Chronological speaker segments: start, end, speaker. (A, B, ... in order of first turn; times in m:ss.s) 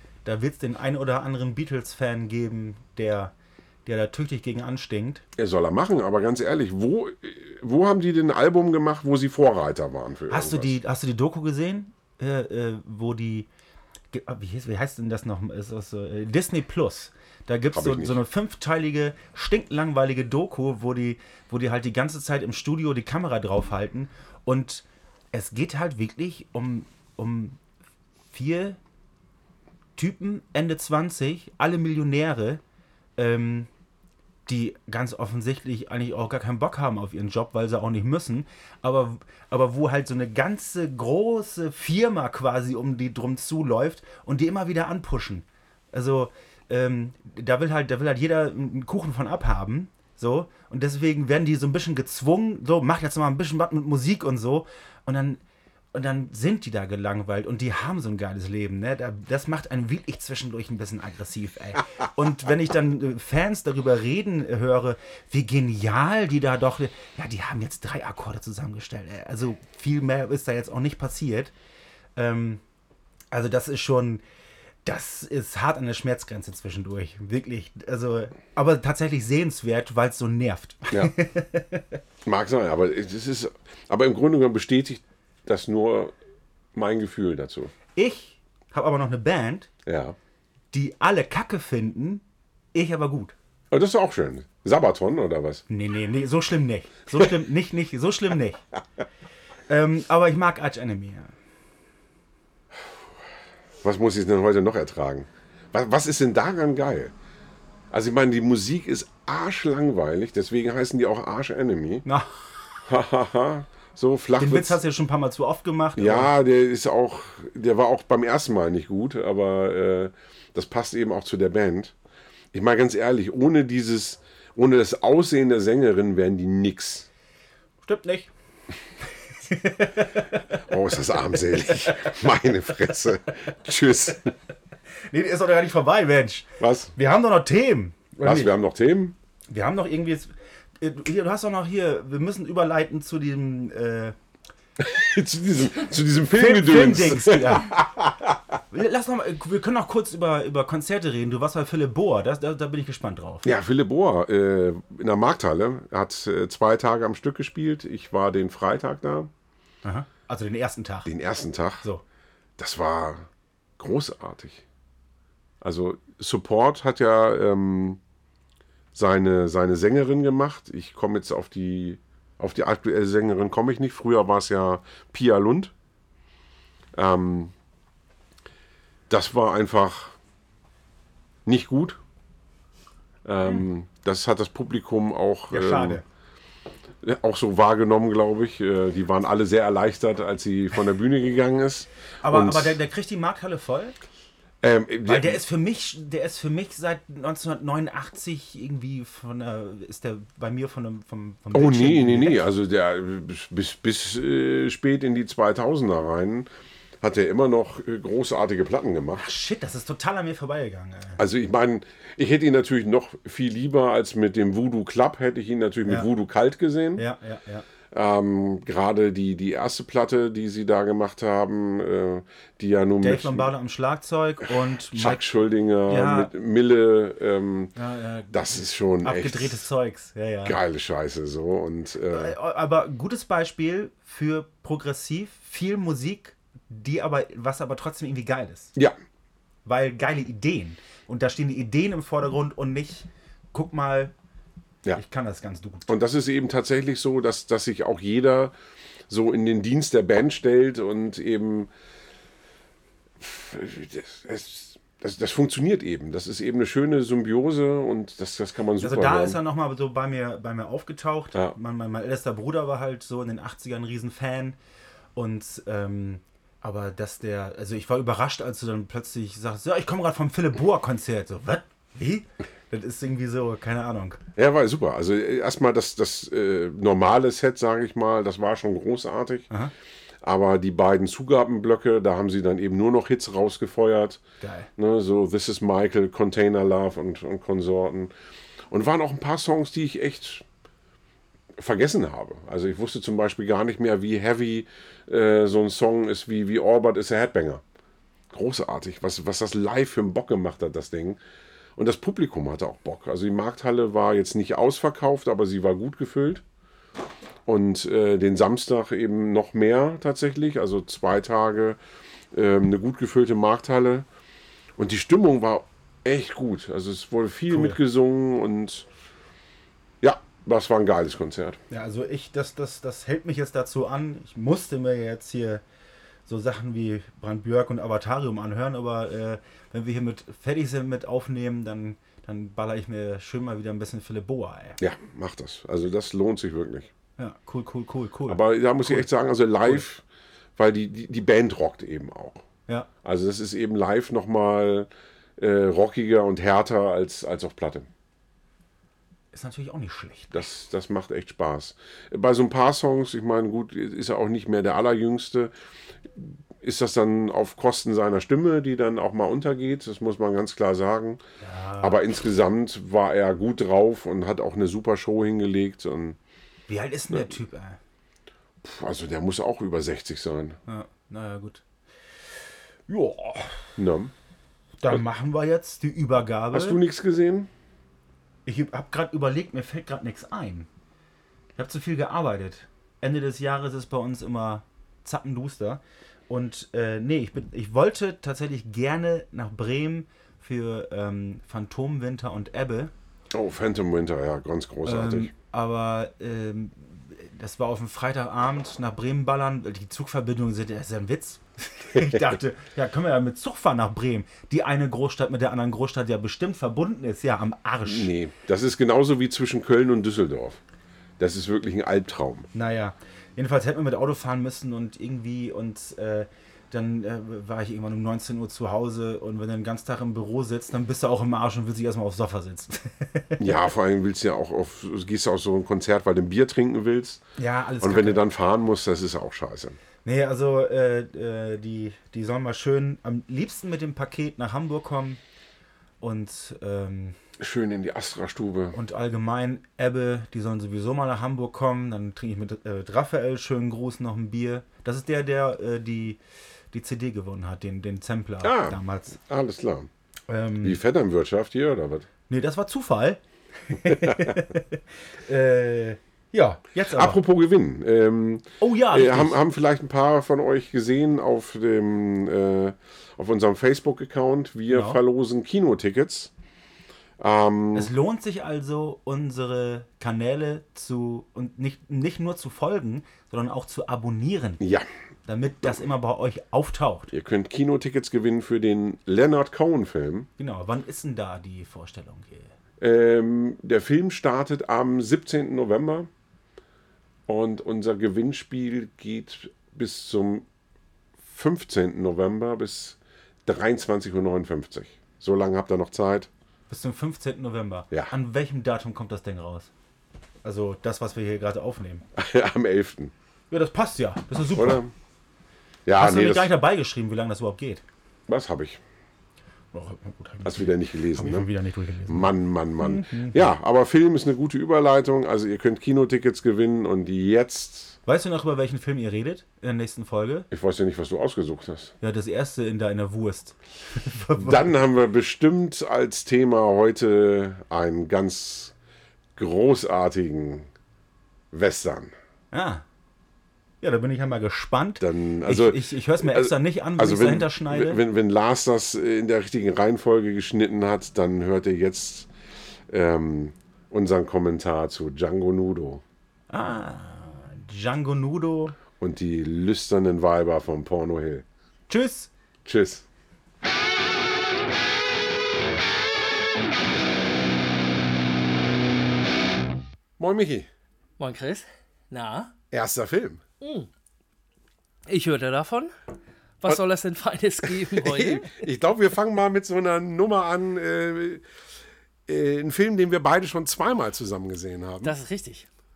0:00.2-0:03.3 A
0:03.8-0:05.2 A
0:05.4-0:10.7 B
0:10.3-0:13.5 A
0:14.1-0:27.6 A
0:17.7-0:18.2 B
0:28.3-0:28.8 A
0:30.0-0:32.6 A
0:33.2-0:33.7 A
0:34.4-0:55.4 A
0:55.9-1:11.5 A
1:12.2-1:12.6 A
1:13.3-1:14.2 A
1:14.8-1:22.0 A
1:22.2-1:26.1 B
1:26.7-1:27.7 B
1:27.9-1:29.7 A
1:29.8-1:30.2 B
1:30.7-1:33.3 A
1:33.7-1:35.6 B
1:35.7-1:38.6 A
1:39.7-1:41.3 A
1:43.8-1:47.1 B
1:47.9-1:52.0 B
1:52.0-1:52.4 A
1:52.8-1:54.8 B
1:54.4-1:56.3 A
1:56.0-2:01.9 B
2:02.5-2:07.1 B
2:07.8-2:08.3 A
2:09.3-2:10.6 A
2:10.7-2:14.3 B
2:11.5-2:12.3 A
2:15.1-2:18.5 A
2:16.6-2:16.9 B
2:18.2-2:19.2 B
2:19.5-2:24.1 A
2:24.8-2:28.6 B
2:26.3-2:27.8 A
2:28.7-2:33.4 A
2:33.4-2:39.3 B
2:39.8-2:41.1 A
2:41.0-2:41.8 B
2:42.6-2:44.6 B
2:45.6-2:48.0 B
2:48.9-2:55.7 B
2:56.9-2:57.5 B
2:59.1-3:00.2 B
3:01.4-3:02.0 B
3:03.2-3:06.0 B
3:05.5-3:06.0 A
3:07.0-3:12.8 B
3:12.2-3:14.0 A
3:14.6-3:15.4 B
3:15.0-3:22.4 A
3:21.5-3:26.5 B
3:27.0-3:29.2 B
3:29.2-3:31.2 A
3:31.2-3:37.0 B
3:37.0-3:37.6 A
3:37.9-3:43.5 B
3:43.0-3:45.2 A
3:44.9-3:47.7 B
3:45.9-3:46.3 A
3:47.7-3:50.6 A
3:48.3-3:49.6 B
3:50.4-3:52.3 B
3:52.1-3:58.7 A
3:59.6-4:04.1 A
4:05.0-4:05.9 A
4:05.9-4:08.5 B
4:09.1-4:11.7 B
4:13.2-4:19.4 B
4:18.8-4:24.6 A
4:25.1-4:34.2 A
4:34.4-4:39.5 B
4:40.2-4:44.2 B
4:44.4-4:44.7 A
4:44.8-4:48.1 B
4:48.7-4:50.4 B
4:51.6-4:57.6 B
4:58.3-5:01.2 B
5:01.8-5:06.4 B
5:07.5-5:11.8 B
5:12.3-5:14.0 B
5:14.8-5:18.9 B
5:17.5-5:17.8 A
5:20.0-5:21.6 B
5:21.7-5:25.6 A
5:26.2-5:34.8 A
5:34.8-5:36.9 B
5:37.2-5:39.1 A
5:38.3-5:40.0 B
5:40.6-5:42.4 B
5:43.0-5:47.9 B
5:49.3-5:50.4 A
5:50.3-5:55.5 B
5:56.2-6:01.2 B
6:01.4-6:02.1 A
6:01.8-6:06.2 B
6:06.7-6:07.8 A
6:08.6-6:10.6 B
6:10.7-6:11.6 A
6:12.9-6:13.6 A
6:13.8-6:14.1 B
6:14.8-6:16.8 A
6:16.5-6:17.5 B
6:18.4-6:20.7 A
6:21.6-6:32.9 A
6:33.3-6:35.3 B
6:34.8-6:48.1 A
6:47.8-6:50.6 B
6:51.2-6:52.5 B
6:52.5-7:03.6 A
7:03.4-7:07.2 B
7:07.4-7:08.2 A
7:07.8-7:09.8 B
7:10.0-7:15.2 A
7:16.0-7:17.2 A
7:17.4-7:18.8 B
7:18.7-7:26.2 A
7:26.7-7:29.2 A
7:28.4-7:29.9 B
7:30.3-7:30.8 A
7:30.6-7:32.1 B
7:32.3-7:37.2 A
7:33.8-7:34.4 B
7:36.9-7:46.3 B
7:38.6-7:39.4 A
7:44.7-7:45.0 A
7:47.2-7:47.9 B
7:47.7-7:54.6 A
7:54.6-7:54.9 B
7:55.2-7:57.1 A
7:57.1-8:00.3 B
8:00.4-8:02.5 A
8:02.8-8:06.1 B
8:07.3-8:10.4 B
8:11.2-8:16.3 B
8:16.7-8:19.7 A
8:20.4-8:22.0 A
8:22.2-8:23.1 B
8:23.5-8:24.8 A
8:24.5-8:24.9 B
8:25.8-8:26.5 B
8:26.0-8:27.8 A
8:28.3-8:28.8 B
8:29.7-8:33.5 A
8:30.4-8:31.5 B
8:32.1-8:38.0 B
8:38.0-8:40.5 A
8:40.5-8:41.9 B
8:42.0-8:44.7 A
8:44.4-8:48.7 B
8:49.4-8:50.7 B
8:51.5-8:52.1 B
8:52.5-8:52.8 A
8:53.8-8:58.0 A
8:55.0-9:02.3 B
9:02.9-9:06.0 B
9:06.5-9:08.8 A
9:09.0-9:11.4 B
9:11.9-9:12.3 A
9:12.6-9:13.0 B
9:20.2-9:20.7 B
9:21.2-9:22.5 C
9:22.7-9:23.4 B
9:23.6-9:23.9 C
9:25.1-9:25.9 C
9:26.6-9:28.6 C
9:27.6-9:31.4 B
9:32.3-9:35.1 B
9:35.0-9:35.7 C